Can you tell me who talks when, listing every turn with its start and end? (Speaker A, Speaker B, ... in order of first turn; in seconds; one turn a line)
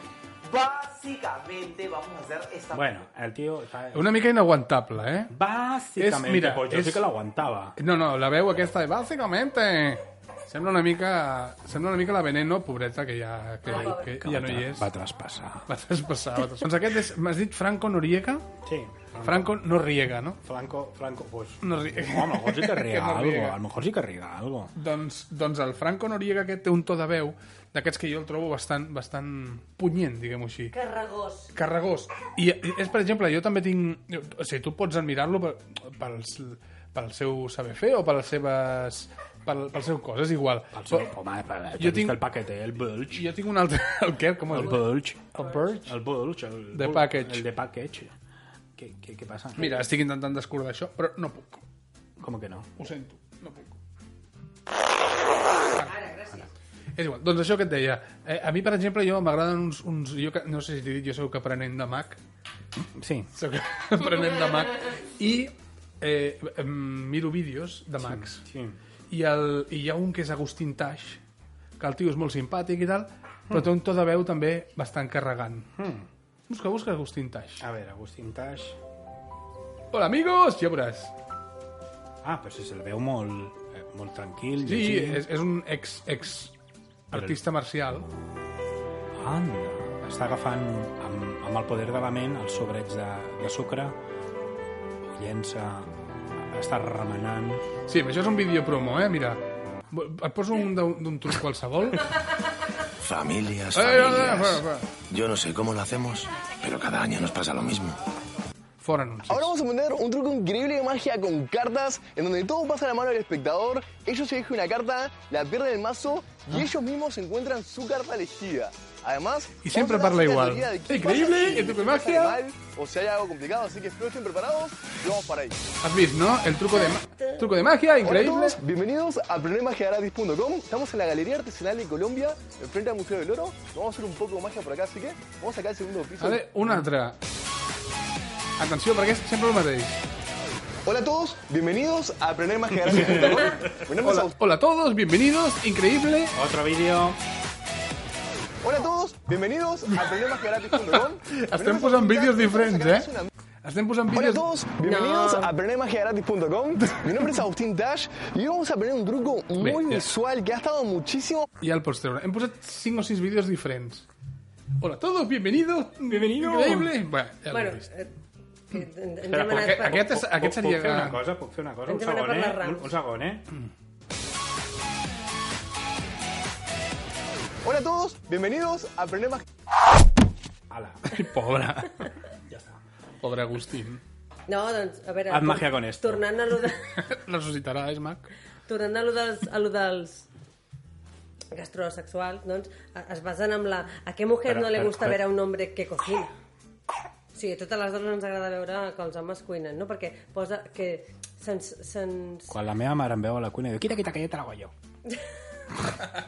Speaker A: 0.5-3.0
Speaker B: 2.7-4.1
Speaker C: 3.9-5.3
Speaker B: 5.3-7.8
Speaker C: 6.0-7.0
Speaker C: 7.8-14.9
Speaker B: 13.7-15.7
Speaker C: 15.7-18.4
Speaker B: 18.6-19.6
Speaker C: 19.2-20.4
Speaker B: 20.4-24.7
Speaker C: 21.6-23.6
Speaker C: 24.8-30.7
Speaker D: 30.7-31.5
Speaker C: 31.5-41.1
Speaker B: 40.7-43.3
Speaker C: 41.8-42.2
Speaker C: 43.1-46.0
Speaker B: 44.5-48.1
Speaker C: 46.7-47.5
Speaker B: 48.8-49.8
Speaker C: 49.6-51.6
Speaker B: 52.2-52.7
Speaker C: 52.8-53.8
Speaker D: 55.7-56.5
Speaker C: 57.0-62.2
Speaker B: 62.8-63.3
Speaker C: 63.3-68.4
Speaker B: 68.0-68.8
Speaker C: 69.1-71.2
Speaker C: 71.8-75.7
Speaker B: 75.8-76.1
Speaker C: 76.5-77.6
Speaker B: 77.6-78.8
Speaker C: 79.9-81.1
Speaker B: 82.2-85.2
Speaker C: 84.7-86.5
Speaker C: 87.1-88.1
Speaker B: 87.1-87.4
Speaker B: 89.2-94.0
Speaker B: 95.1-95.9
Speaker B: 96.4-97.6
Speaker C: 97.9-102.2
Speaker E: 103.0-108.0
Speaker C: 103.7-104.9
Speaker C: 108.8-109.5
Speaker F: 109.3-125.5
Speaker C: 119.6-122.4
Speaker C: 125.8-128.6
Speaker F: 128.0-136.4
Speaker C: 136.2-137.2
Speaker C: 138.6-140.0
Speaker F: 140.9-144.3
Speaker C: 142.9-146.4
Speaker B: 146.3-147.2
Speaker F: 148.6-153.3
Speaker C: 151.3-153.1
Speaker C: 153.6-154.4
Speaker F: 154.1-161.5
Speaker D: 154.8-155.5
Speaker C: 159.6-160.1
Speaker C: 161.6-164.1
Speaker C: 164.8-167.9
Speaker B: 166.1-166.9
Speaker D: 167.5-168.1
Speaker D: 168.7-170.1
Speaker B: 169.3-173.4
Speaker C: 169.5-171.2
Speaker D: 171.9-172.9
Speaker F: 177.6-179.4
Speaker B: 180.7-181.2
Speaker C: 181.1-182.1
Speaker B: 182.5-182.8
Speaker C: 183.2-184.0
Speaker D: 184.5-187.0
Speaker B: 185.3-186.3
Speaker C: 187.0-188.3
Speaker D: 188.7-190.3
Speaker D: 191.5-196.3
Speaker B: 194.5-195.2
Speaker D: 197.3-202.6
Speaker B: 202.5-204.7
Speaker D: 205.1-205.3